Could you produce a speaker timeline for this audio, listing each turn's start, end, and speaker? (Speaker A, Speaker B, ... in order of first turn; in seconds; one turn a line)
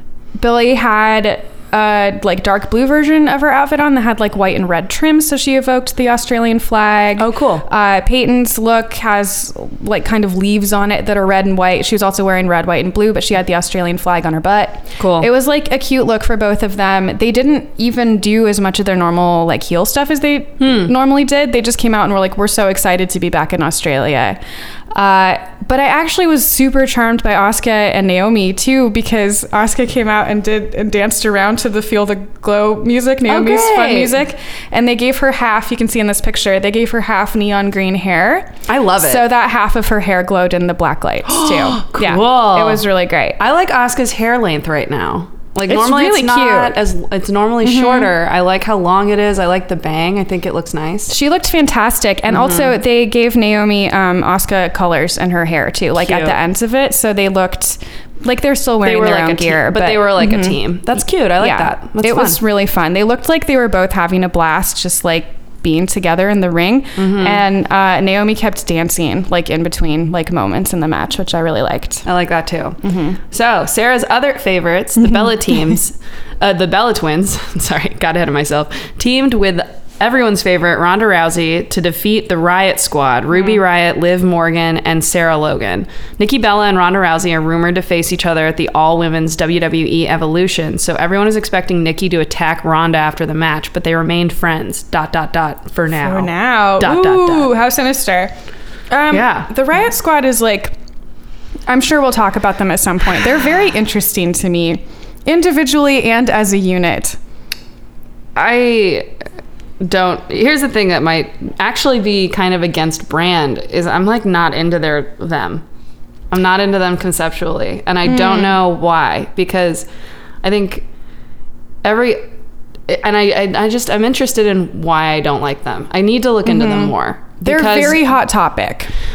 Speaker A: 0.3-24.4
Speaker B: 7.2-7.6
Speaker B: 15.0-15.3
Speaker B: 20.6-20.9
Speaker A: 24.9-43.4
Speaker B: 33.2-34.1
Speaker B: 38.7-39.2
Speaker B: 41.2-51.1
Speaker A: 45.6-46.8
Speaker A: 47.6-48.1
Speaker A: 51.1-60.8
Speaker B: 52.3-52.7
Speaker B: 56.0-56.4
Speaker B: 58.8-62.4
Speaker A: 61.4-72.0
Speaker B: 67.0-67.4
Speaker B: 72.0-97.5
Speaker A: 72.8-73.2
Speaker A: 95.9-98.3
Speaker A: 98.9-100.7
Speaker B: 99.1-99.5
Speaker A: 101.7-107.2
Speaker B: 108.3-109.1
Speaker B: 109.8-115.6
Speaker B: 116.3-119.9
Speaker A: 118.1-118.5
Speaker B: 120.4-120.8
Speaker B: 121.8-122.2
Speaker B: 122.9-128.1
Speaker A: 126.4-128.9